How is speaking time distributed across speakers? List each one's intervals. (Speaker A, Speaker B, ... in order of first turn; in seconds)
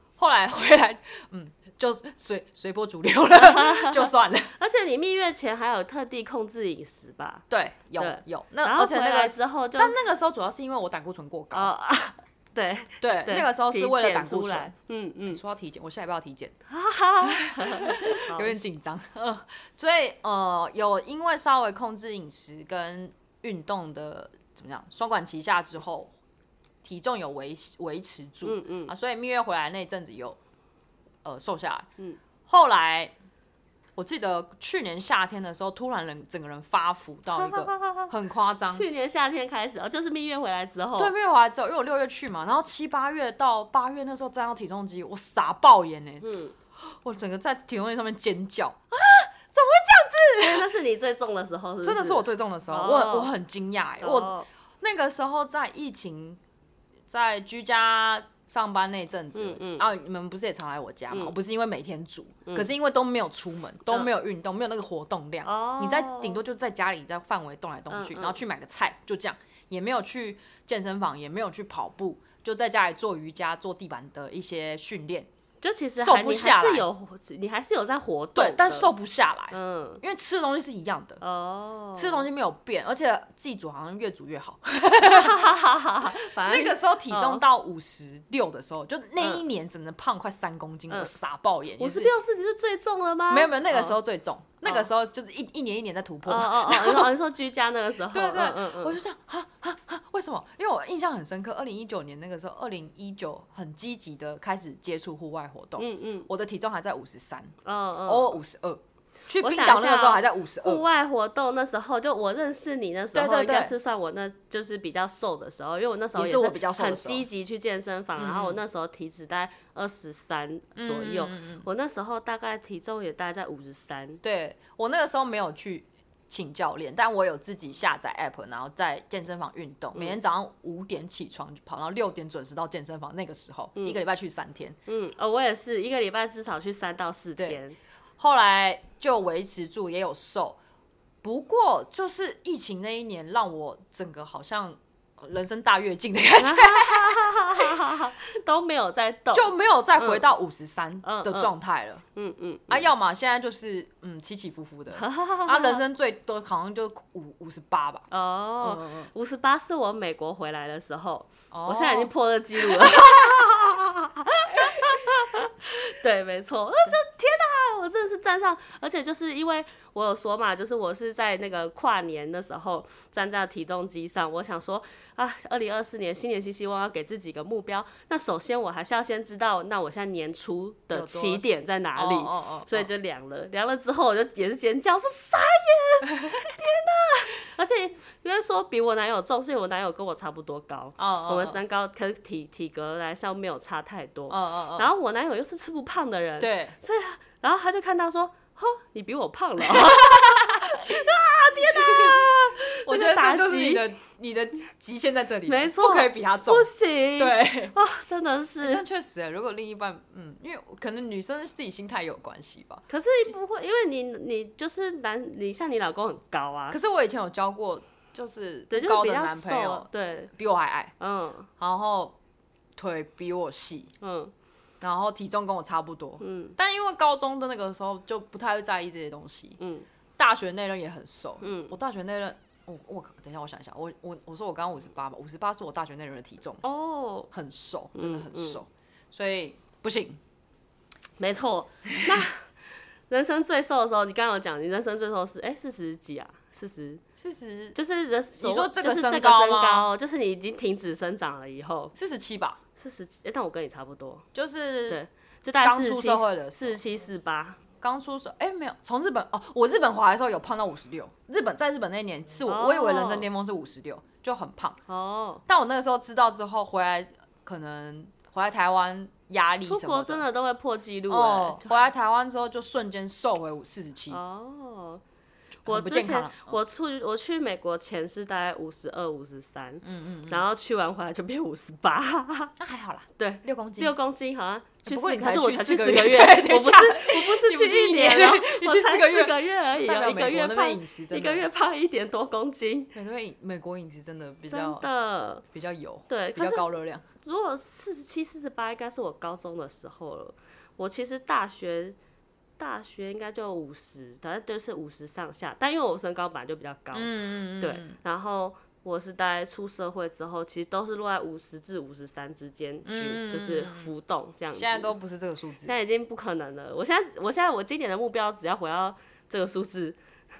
Speaker A: 0.2-4.5, 7.5-11.7, 13.0-14.7, 15.3-16.6, 17.2-26.1, 26.8-30.4, 31.2-31.9, 32.5-33.1, 34.0-38.9, 41.0-46.2, 46.8-50.7, 51.8-56.4, 57.1-75.3, 76.0-76.8, 78.3-81.2, 81.9-92.1, 93.3-97.2, 98.1-110.8, 113.1-113.7, 116.1-117.2, 118.2-118.6, 120.8-121.6, 124.2-134.8, 138.2-140.6, 141.2-147.8, 149.3-152.0, 152.7-158.1, 158.6-159.1, 161.5-164.0, 164.6-165.0, 180.9-182.9, 191.0-191.6, 194.3-194.9, 196.4-196.8, 199.6-207.8, 208.6-212.9, 216.7-220.9, 221.6-222.2, 222.8-223.9, 224.8-229.6, 230.2-236.6, 237.3-240.2, 247.1-247.8, 248.3-249.9, 251.9-252.6, 254.3-255.0, 255.6-256.8, 257.8-264.8, 265.4-270.2, 271.1-274.2, 275.6-276.6, 279.8-280.4, 282.6-283.9, 284.8-291.5, 292.9-294.9, 295.5-297.0, 306.9-308.0, 312.8-313.9, 314.5-315.7
Speaker B: 3.4-7.4, 8.0-9.9, 11.5-15.4, 16.7-18.6, 28.4-28.9, 37.4-38.1, 38.7-41.1, 46.2-46.5, 50.4-53.3, 54.0-54.5, 59.3-59.9, 61.1-61.3, 65.4-66.4, 67.9-68.4, 75.6-78.9, 79.5-80.0, 81.2-82.3, 85.0-87.4, 91.8-94.0, 96.2-99.0, 105.8-106.3, 107.6-108.4, 109.4-124.2, 134.9-137.8, 146.4-150.3, 151.0-151.5, 152.1-152.9, 154.9-155.8, 158.1-203.8, 205.4-208.8, 212.9-216.8, 218.7-220.3, 221.0-221.5, 224.0-224.3, 226.2-226.6, 229.6-229.9, 231.4-231.8, 236.6-237.3, 237.9-238.6, 241.2-242.5, 243.1-247.0, 247.7-251.9, 252.8-254.2, 254.9-257.6, 262.4-263.3, 264.9-265.4, 269.6-271.7, 274.1-275.0, 275.6-282.5, 283.2-292.9, 294.5-295.4, 296.1-296.6, 297.2-302.0, 302.6-314.9, 315.6-320.0